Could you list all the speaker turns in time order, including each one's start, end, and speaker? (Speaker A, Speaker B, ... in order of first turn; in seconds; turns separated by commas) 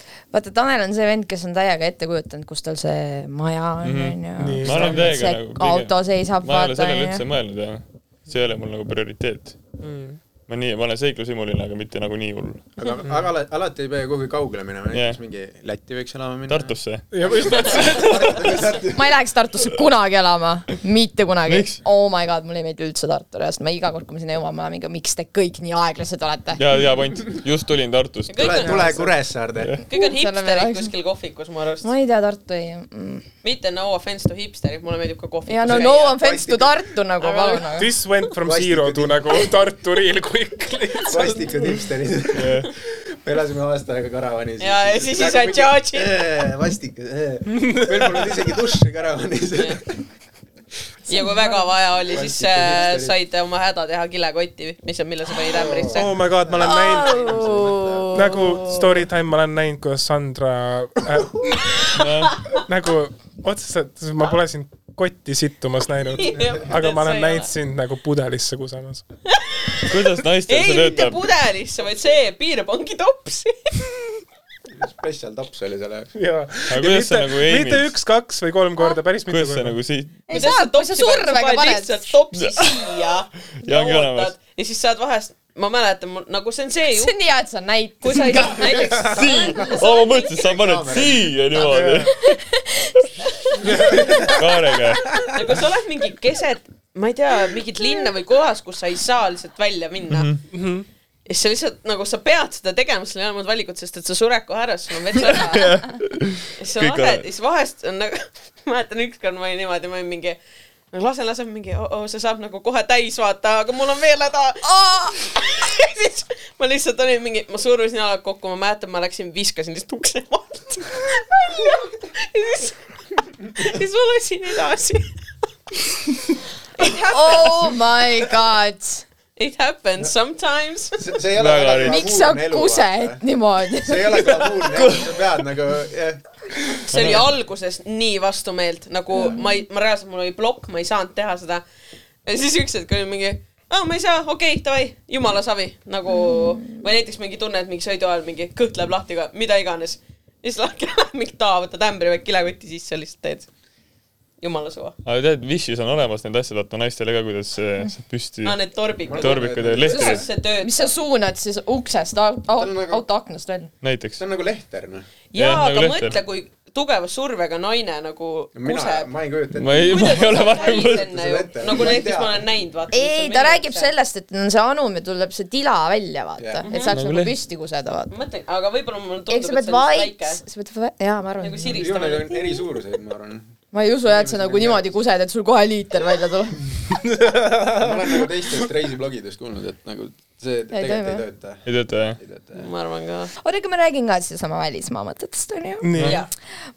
Speaker A: 0.3-7.2, Speaker B: 3.8-9.6, Speaker C: 4.4-5.2, Speaker C: 9.8-10.2, Speaker B: 10.5-12.7, Speaker D: 12.8-16.8, Speaker B: 14.9-15.2, Speaker B: 16.5-18.5, Speaker C: 17.1-18.3, Speaker D: 17.5-19.1, Speaker A: 18.9-26.6, Speaker B: 21.5-21.8, Speaker B: 26.6-28.9, Speaker E: 28.3-29.1, Speaker D: 28.3-29.8, Speaker E: 29.9-31.9, Speaker A: 29.9-30.9, Speaker A: 31.8-33.2, Speaker E: 33.4-36.2, Speaker A: 35.5-37.9, Speaker D: 35.6-36.7, Speaker E: 37.2-37.7, Speaker C: 37.8-41.8, Speaker D: 38.4-39.4, Speaker D: 41.0-50.0, Speaker B: 42.3-42.7, Speaker E: 44.6-46.1, Speaker C: 47.5-48.2, Speaker E: 49.6-49.8, Speaker A: 51.1-51.7, Speaker E: 51.1-56.1, Speaker D: 52.0-53.2, Speaker D: 55.5-58.2, Speaker C: 56.0-57.3, Speaker A: 56.6-58.9, Speaker C: 58.1-61.9, Speaker B: 61.9-62.5, Speaker C: 62.6-69.0, Speaker E: 66.2-67.5, Speaker E: 69.3-74.2, Speaker B: 69.9-71.3, Speaker D: 74.7-76.2, Speaker C: 76.2-79.8, Speaker B: 76.7-77.9, Speaker B: 79.3-80.2, Speaker A: 80.3-82.0, Speaker E: 80.3-87.1, Speaker B: 83.6-84.3, Speaker A: 87.0-89.8, Speaker E: 88.0-90.3, Speaker D: 88.5-89.4, Speaker B: 89.0-92.3, Speaker D: 90.5-91.9, Speaker C: 91.7-92.1, Speaker A: 92.3-93.0, Speaker D: 93.6-94.4, Speaker B: 94.2-95.2, Speaker E: 95.3-100.3, Speaker B: 100.1-100.4, Speaker C: 100.5-100.9, Speaker E: 101.3-105.9, Speaker B: 105.4-107.2, Speaker E: 106.6-110.4, Speaker E: 110.9-125.1, Speaker E: 126.8-127.7, Speaker A: 127.1-129.1, Speaker E: 129.4-131.0, Speaker D: 131.0-133.2, Speaker B: 131.4-132.0, Speaker A: 131.8-134.3, Speaker D: 133.8-136.8, Speaker E: 134.7-135.0, Speaker E: 136.9-141.6, Speaker B: 136.9-137.3, Speaker A: 139.1-139.4, Speaker E: 142.2-153.5, Speaker A: 146.2-146.6, Speaker E: 154.4-154.9, Speaker B: 155.1-158.6, Speaker E: 158.4-160.9, Speaker D: 159.1-160.2, Speaker B: 159.2-160.2, Speaker A: 160.0-163.7, Speaker D: 162.6-163.1, Speaker B: 163.8-164.2, Speaker D: 164.2-165.1, Speaker E: 165.3-169.1, Speaker B: 165.3-166.2, Speaker D: 168.6-170.4, Speaker B: 169.6-171.1, Speaker E: 169.8-173.9, Speaker D: 171.0-172.4, Speaker A: 172.9-178.1, Speaker D: 176.4-176.7, Speaker E: 176.7-176.9, Speaker B: 176.9-177.3, Speaker E: 178.1-180.4, Speaker A: 179.3-182.0, Speaker E: 181.4-182.4, Speaker D: 181.7-184.9, Speaker A: 183.7-186.8, Speaker C: 186.9-188.6, Speaker D: 187.8-192.7, Speaker A: 190.7-191.2, Speaker B: 191.7-192.2, Speaker E: 192.6-193.3, Speaker A: 193.4-195.9, Speaker C: 195.8-196.2, Speaker B: 196.0-196.2, Speaker E: 196.0-196.3